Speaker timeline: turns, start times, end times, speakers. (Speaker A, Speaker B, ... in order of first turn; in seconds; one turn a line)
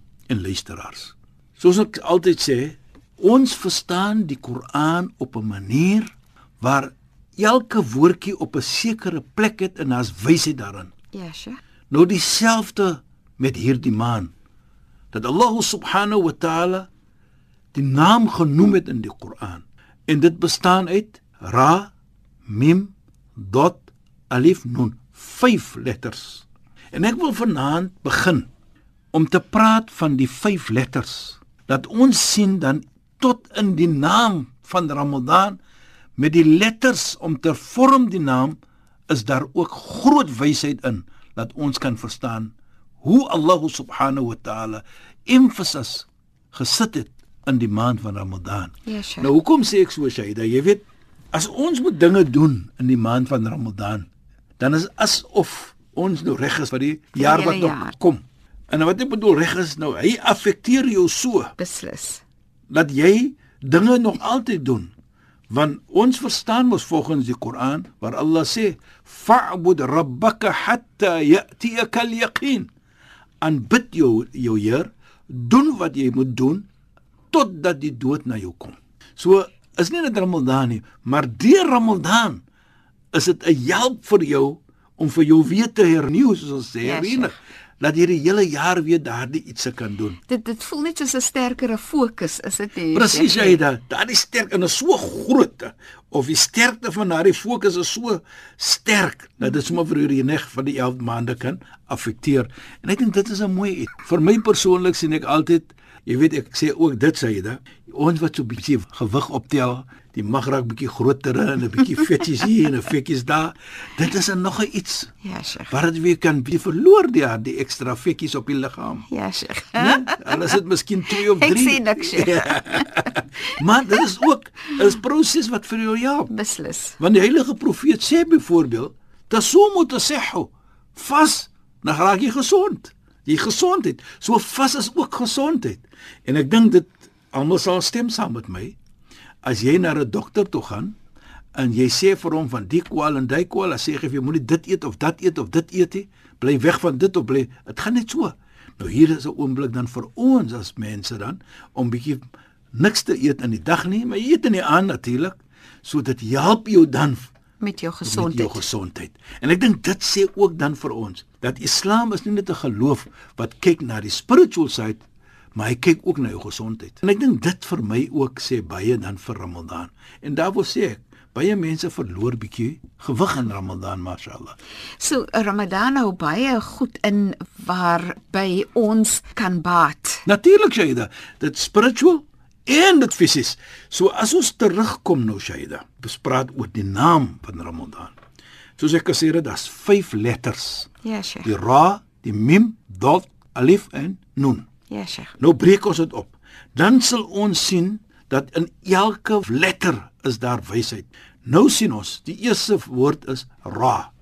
Speaker A: 0.3-10.9
Speaker B: 11.1-11.6
Speaker A: 11.9-14.3
Speaker A: 15.1-16.9
Speaker A: 17.7-21.9
Speaker A: 22.5-28.5
Speaker A: 29.1-35.6
Speaker A: 36.2-38.6
Speaker A: 39.1-50.8
Speaker B: 48.9-49.3
Speaker A: 51.3-54.1
Speaker A: 54.6-61.5
Speaker B: 57.1-57.9
Speaker B: 61.6-62.2
Speaker A: 62.7-64.9
Speaker A: 65.5-72.7
Speaker A: 73.4-76.7
Speaker A: 77.3-82.4
Speaker A: 83.1-90.2
Speaker B: 86.8-87.4
Speaker B: 90.3-93.6
Speaker A: 92.9-115.1
Speaker B: 115.2-115.7
Speaker A: 115.7-119.1
Speaker B: 119.1-120.5
Speaker A: 119.8-126.3
Speaker B: 121.2-123.6
Speaker B: 126.3-127.0
Speaker A: 127.0-138.8
Speaker A: 139.4-141.0
Speaker A: 141.6-152.2
Speaker A: 152.8-157.3
Speaker B: 157.6-158.7
Speaker A: 158.1-165.0
Speaker A: 165.6-174.6
Speaker B: 175.0-180.2
Speaker A: 180.3-188.2
Speaker A: 188.8-190.9
Speaker B: 191.0-191.5
Speaker A: 191.4-194.7
Speaker B: 194.9-195.3
Speaker A: 195.4-204.1